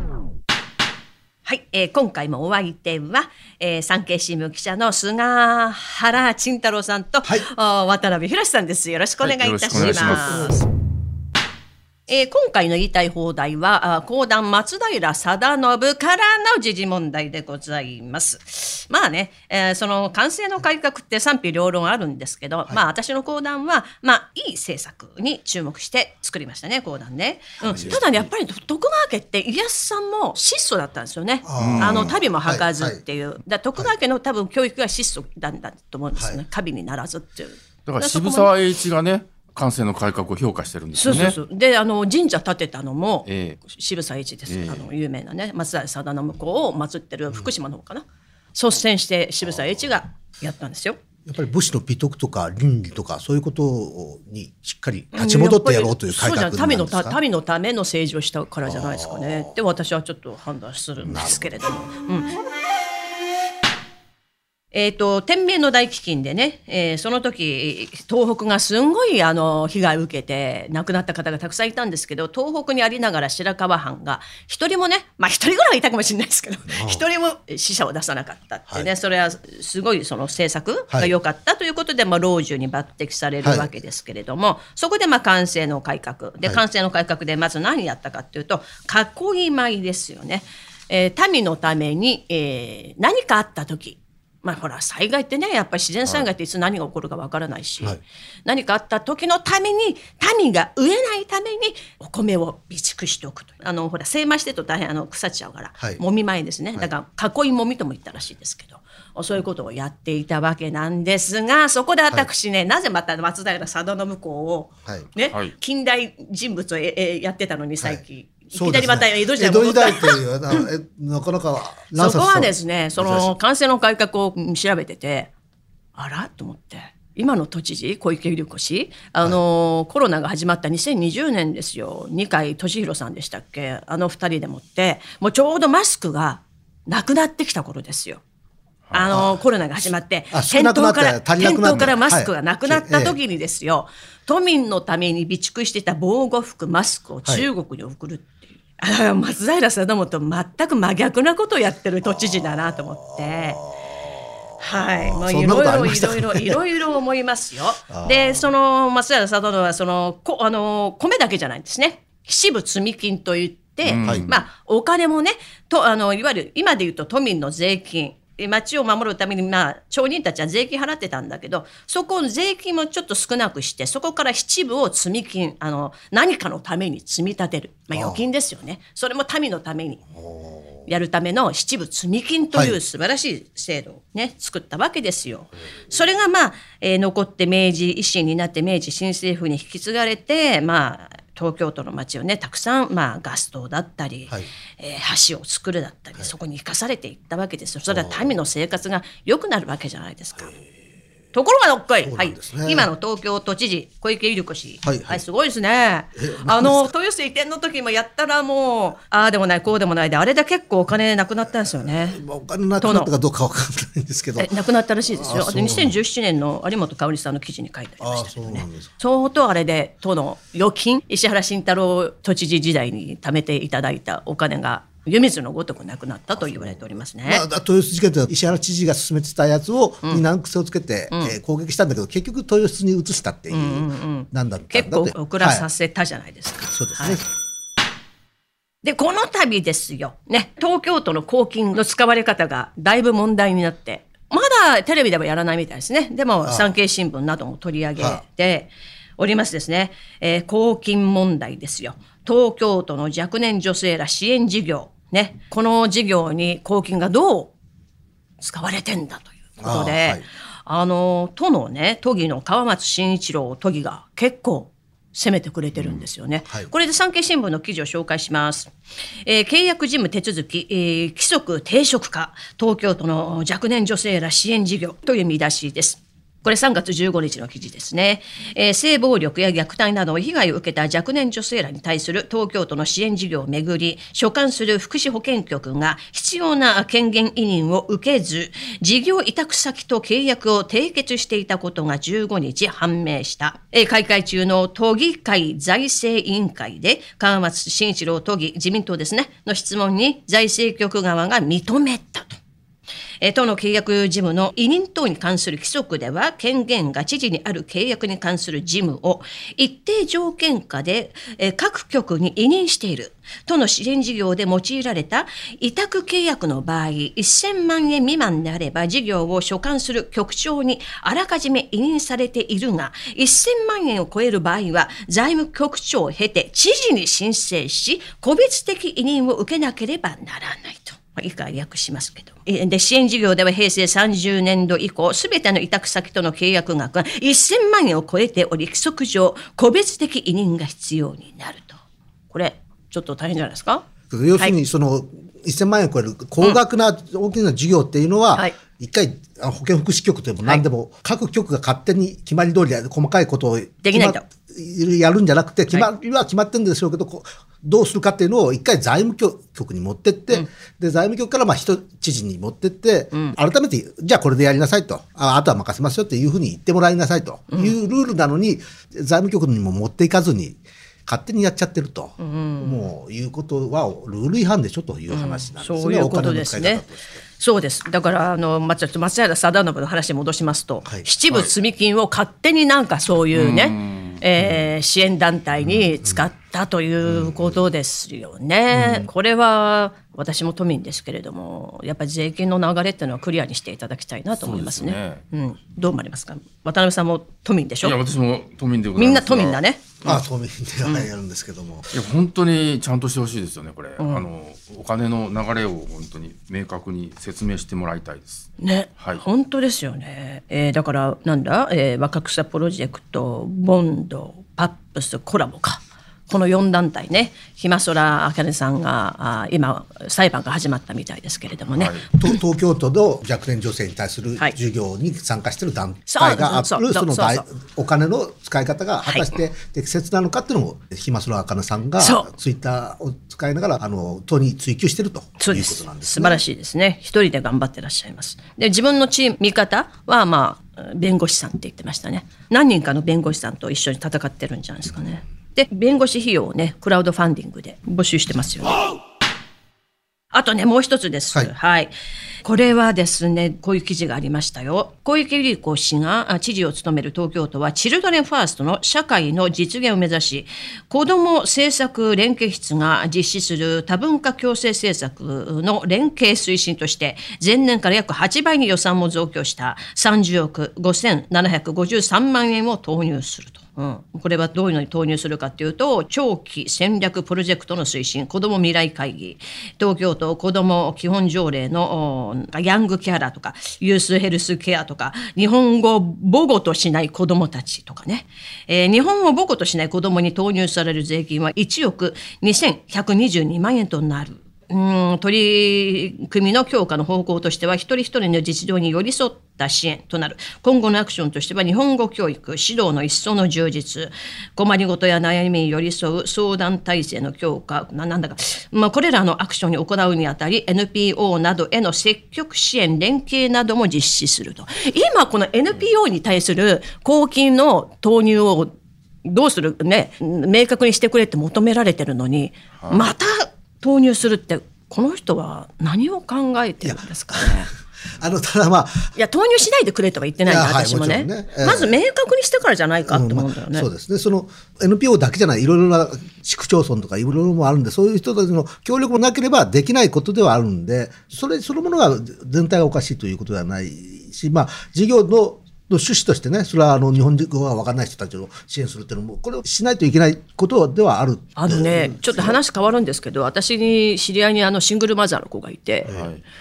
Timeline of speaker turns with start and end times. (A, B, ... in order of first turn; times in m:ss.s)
0:01.4-0:10.6 A
0:09.2-0:10.5 B
0:09.7-0:10.6 C
0:12.1-0:38.5 A
0:27.6-0:28.3 C
0:31.4-0:33.0 C
0:31.6-0:32.1 B
0:36.2-0:36.4 C
0:37.9-0:41.4 B
0:41.0-0:51.0 A
0:43.3-0:43.6 B
0:44.5-0:44.9 B
0:49.5-0:49.8 C
0:51.3-0:57.2 C
0:55.1-1:02.3 A
0:58.7-0:59.5 C
1:01.0-1:01.9 C
1:04.7-2:00.7 A
1:16.7-1:17.0 C
1:23.4-1:23.7 C
1:55.3-1:55.5 B
1:58.5-2:03.3 C
2:02.0-2:05.3 A
2:06.0-2:18.2 A
2:18.9-2:19.2 B
2:18.9-2:33.6 A
2:19.1-2:19.4 C
2:20.3-2:23.2 C
2:32.0-2:36.6 C
2:34.6-3:00.0 A
2:37.9-2:38.5 C
2:43.8-2:44.3 B
2:44.0-2:44.3 C
2:57.9-2:58.2 C
3:00.1-3:00.9 C
3:00.9-3:20.5 A
3:02.5-3:02.8 C
3:17.9-3:18.3 C
3:21.3-3:32.2 A
3:22.0-3:22.9 C
3:24.8-3:25.2 C
3:26.2-3:26.9 C
3:31.7-3:34.5 C
3:32.8-3:33.1 A
3:34.4-3:47.4 A
3:35.1-3:36.0 C
3:38.0-3:38.9 C
3:46.4-3:55.7 C
3:53.5-3:57.2 A
3:56.7-3:57.3 C
3:58.8-4:17.6 A
4:06.4-4:06.7 C
4:08.0-4:08.2 C
4:18.4-4:28.7 A
4:19.6-4:20.3 C
4:25.8-4:26.7 C
4:29.2-5:02.4 A
5:03.2-5:41.8 A
5:42.3-5:44.6 A
5:44.1-6:17.2 C
5:53.8-5:54.2 A
6:12.2-6:12.8 A
6:15.1-6:16.8 A
6:17.4-6:38.0 A
6:23.3-6:24.2 B
6:24.4-6:24.7 C
6:25.6-6:26.2 C
6:27.0-6:27.7 C
6:28.7-6:29.1 C
6:34.4-6:35.2 B
6:37.8-6:39.6 B
6:39.0-6:40.2 A
6:40.0-6:41.9 C
6:40.8-6:41.1 A
6:41.9-6:48.5 B
6:44.0-6:44.3 A
6:48.6-7:02.4 A
7:01.7-7:02.0 B
7:02.1-7:16.4 C
7:06.1-7:07.5 A
7:09.0-7:09.4 A
7:12.0-7:12.3 A
7:15.4-7:29.0 A
7:30.3-7:31.9 A
7:32.4-8:38.7 A
8:39.2-8:47.7 A
8:42.8-8:43.1 B
8:46.8-8:49.1 C
8:49.2-8:53.9 A
8:50.4-8:52.0 C
8:53.0-9:12.6 C
9:11.6-9:16.1 A
9:16.0-9:16.3 C
9:16.1-9:16.4 B